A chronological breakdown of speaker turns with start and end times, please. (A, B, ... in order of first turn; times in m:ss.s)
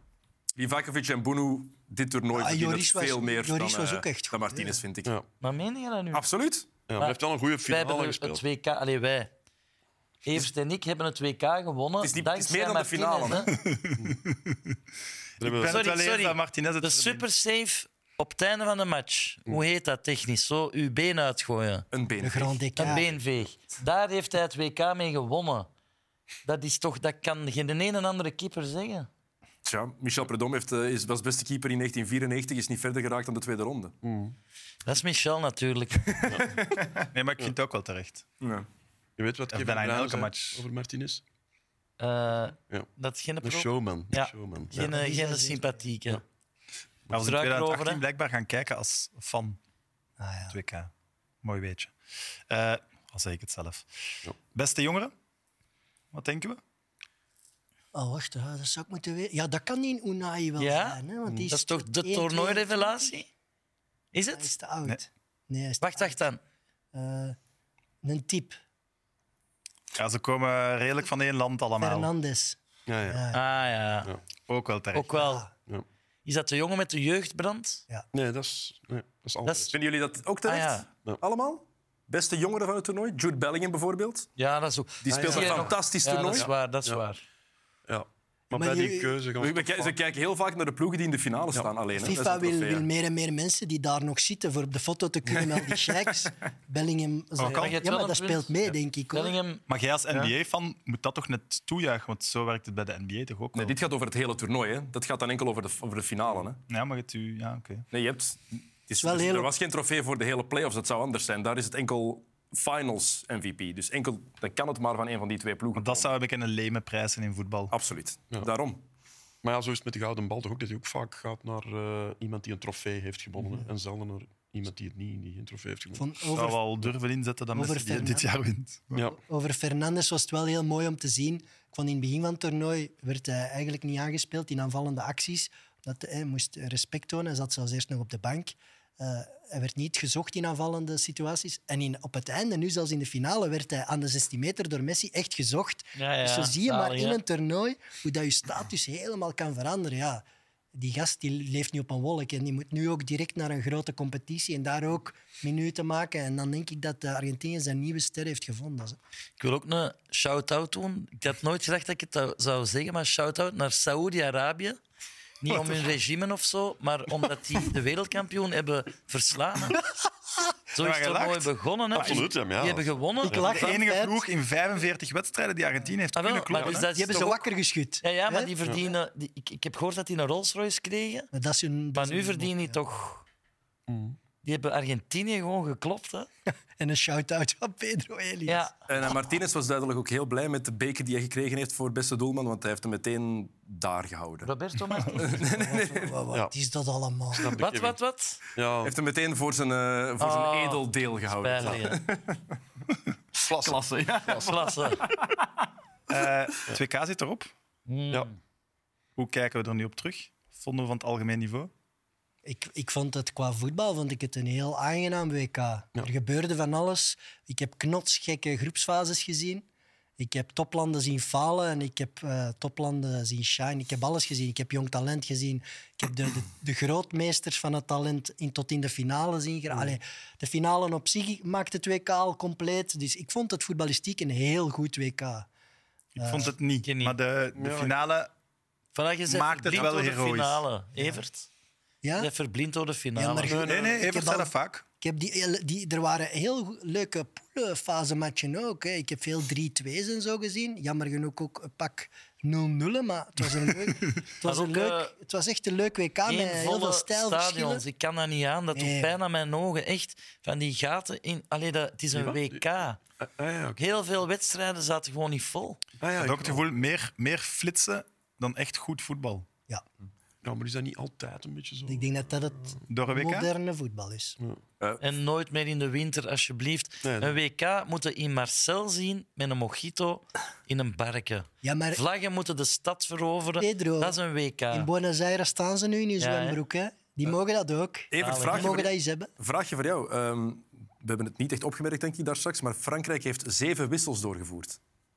0:00.6-0:05.1 A
0:02.3-0:04.8 B
0:05.4-0:06.2 C
0:06.1-0:06.7 A
0:06.9-0:08.4 D
0:07.0-0:09.3 C
0:10.2-0:13.5 C
0:12.0-0:13.5 A
0:13.5-0:14.6 E
0:15.4-0:15.8 D
0:15.4-0:17.2 E
0:15.6-0:21.8 C
0:21.9-0:22.9 A
0:22.2-0:23.1 B
0:22.8-0:25.7 C
0:26.4-0:29.1 C
0:29.6-0:33.9 A
0:34.0-0:34.4 D
0:34.8-0:36.3 C
0:36.3-0:36.5 D
0:36.6-0:36.8 A
0:37.1-0:38.2 E
0:38.4-0:38.7 A
0:39.2-0:41.2 D
0:39.5-0:40.6 E
0:42.0-0:46.2 C
0:43.4-0:44.9 D
0:44.7-0:45.8 B
0:47.1-0:49.6 E
0:47.2-0:48.0 C
0:50.2-0:50.6 B
0:50.5-0:50.9 E
0:51.4-0:51.9 E
0:52.5-0:53.9 E
0:54.4-0:55.1 E
0:56.1-0:56.6 E
0:57.9-1:03.2 B
1:00.6-1:03.3 C
1:04.1-1:04.5 C
1:04.3-1:06.2 B
1:05.8-1:06.4 C
1:06.9-1:07.4 B
1:08.0-1:08.6 B
1:10.0-1:12.1 E
1:11.8-1:13.4 B
1:12.9-1:13.2 D
1:13.3-1:14.1 C
1:14.5-1:15.1 E
1:14.9-1:15.4 C
1:15.1-1:15.5 B
1:16.2-1:17.8 C
1:18.1-1:19.7 D
1:19.4-1:19.7 C
1:19.7-1:24.3 A
1:20.4-1:20.8 C
1:24.4-1:27.2 C
1:25.0-1:26.5 A
1:25.1-1:25.8 D
1:26.3-1:27.0 D
1:27.9-1:29.9 D
1:28.5-1:29.1 B
1:29.4-1:32.9 A
1:32.0-1:39.4 B
1:35.3-1:36.1 A
1:37.4-1:37.8 E
1:37.4-1:38.5 C
1:39.1-1:39.6 C
1:39.7-1:43.8 E
1:43.5-1:46.6 A
1:46.7-1:47.8 E
1:47.9-1:56.1 A
1:49.0-1:49.5 B
1:55.7-1:57.7 E
1:57.7-1:58.8 A
1:59.4-2:06.1 D
2:05.9-2:06.6 B
2:06.3-2:09.0 E
2:07.5-2:08.3 B
2:08.9-2:09.2 D
2:09.1-2:39.0 B
2:26.0-2:27.2 C
2:39.4-2:44.8 C
2:45.4-2:49.8 C
2:50.7-2:53.5 C
2:50.8-2:52.2 E
2:51.9-2:53.5 D
2:53.2-2:54.2 B
2:53.3-2:56.9 E
2:56.1-2:57.4 C
2:56.6-2:57.3 D
2:56.9-2:58.5 B
2:58.0-3:01.3 C
3:01.3-3:02.8 B
3:01.9-3:03.2 C
3:03.9-3:04.2 D
3:04.4-3:06.3 C
3:06.8-3:08.7 B
3:08.5-3:08.7 C
3:08.9-3:14.5 A
3:14.4-3:15.4 C
3:15.1-3:16.1 A
3:15.3-3:17.6 B
3:17.3-3:18.0 D
3:17.6-3:18.4 C
3:18.5-3:18.9 D
3:18.8-3:22.4 A
3:20.2-3:22.0 C
3:21.6-3:21.9 D
3:23.4-3:25.4 A
3:23.4-3:24.5 D
3:24.3-3:25.0 C
3:26.1-3:27.5 E
3:27.9-3:28.4 C
3:29.2-3:31.7 E
3:32.4-3:39.6 B
3:40.2-3:55.5 B
3:49.7-3:50.0 D
3:56.2-3:58.3 E
3:56.2-3:56.5 B
3:56.8-3:57.2 C
3:57.6-3:58.0 D
3:58.9-4:01.5 C
3:59.3-4:00.6 E
4:02.0-4:02.3 B
4:02.2-4:03.6 C
4:03.2-4:17.8 B
4:03.4-4:04.0 D
4:03.6-4:04.8 E
4:14.4-4:15.1 C
4:16.2-4:23.0 C
4:18.7-4:19.1 B
4:22.1-4:22.6 D
4:23.2-4:23.8 D
4:23.8-4:25.8 C
4:26.0-4:26.7 D
4:26.2-4:29.5 E
4:30.4-4:32.8 D
4:31.9-4:34.4 B
4:32.9-4:33.5 E
4:35.0-4:44.9 C
4:37.0-4:37.4 D
4:41.6-4:42.0 B
4:43.6-4:44.2 B
4:44.7-4:49.3 B
4:46.2-4:46.6 C
4:48.1-4:54.8 A
4:48.2-4:48.8 C